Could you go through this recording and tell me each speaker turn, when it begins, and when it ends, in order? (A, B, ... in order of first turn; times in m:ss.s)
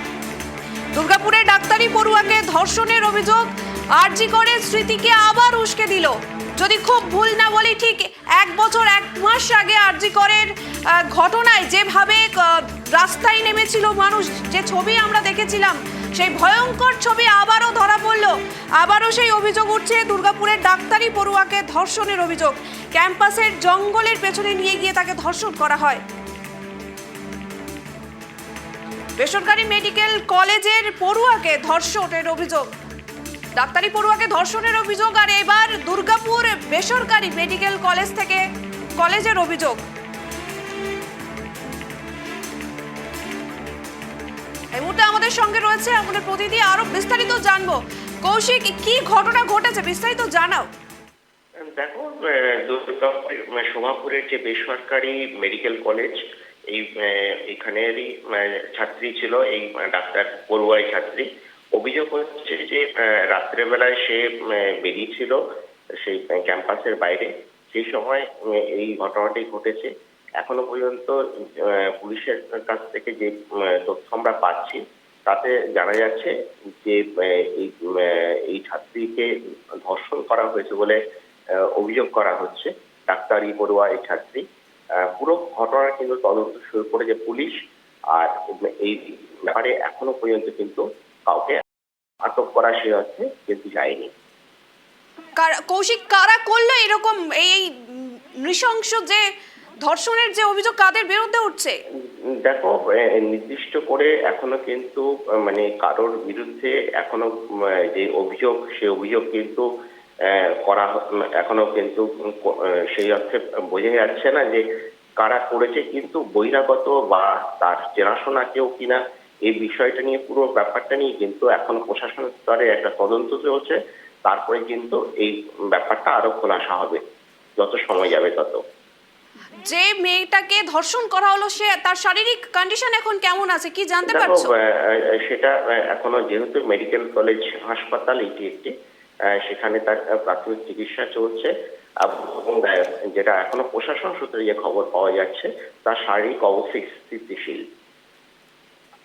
0:00.9-0:26.0 A
0:29.2-0:32.7 A
0:33.6-0:38.4 A
0:39.0-0:39.8 A
0:44.7-0:50.7 A
0:51.6-0:56.2 B
0:56.7-1:05.4 B
1:06.0-1:16.3 B
1:16.8-1:19.3 B
1:19.9-1:21.0 B
1:21.8-1:24.4 B
1:25.1-1:27.6 B
1:28.2-1:31.6 B
1:32.2-1:34.1 B
1:35.4-1:39.2 A
1:39.8-1:41.8 A
1:42.4-1:47.3 B
1:47.9-1:49.6 B
1:50.3-1:54.6 B
1:55.2-2:07.0 B
2:07.6-2:08.6 B
2:09.6-2:14.5 A
2:14.1-2:18.7 B
2:19.3-2:21.5 B
2:22.0-2:27.6 B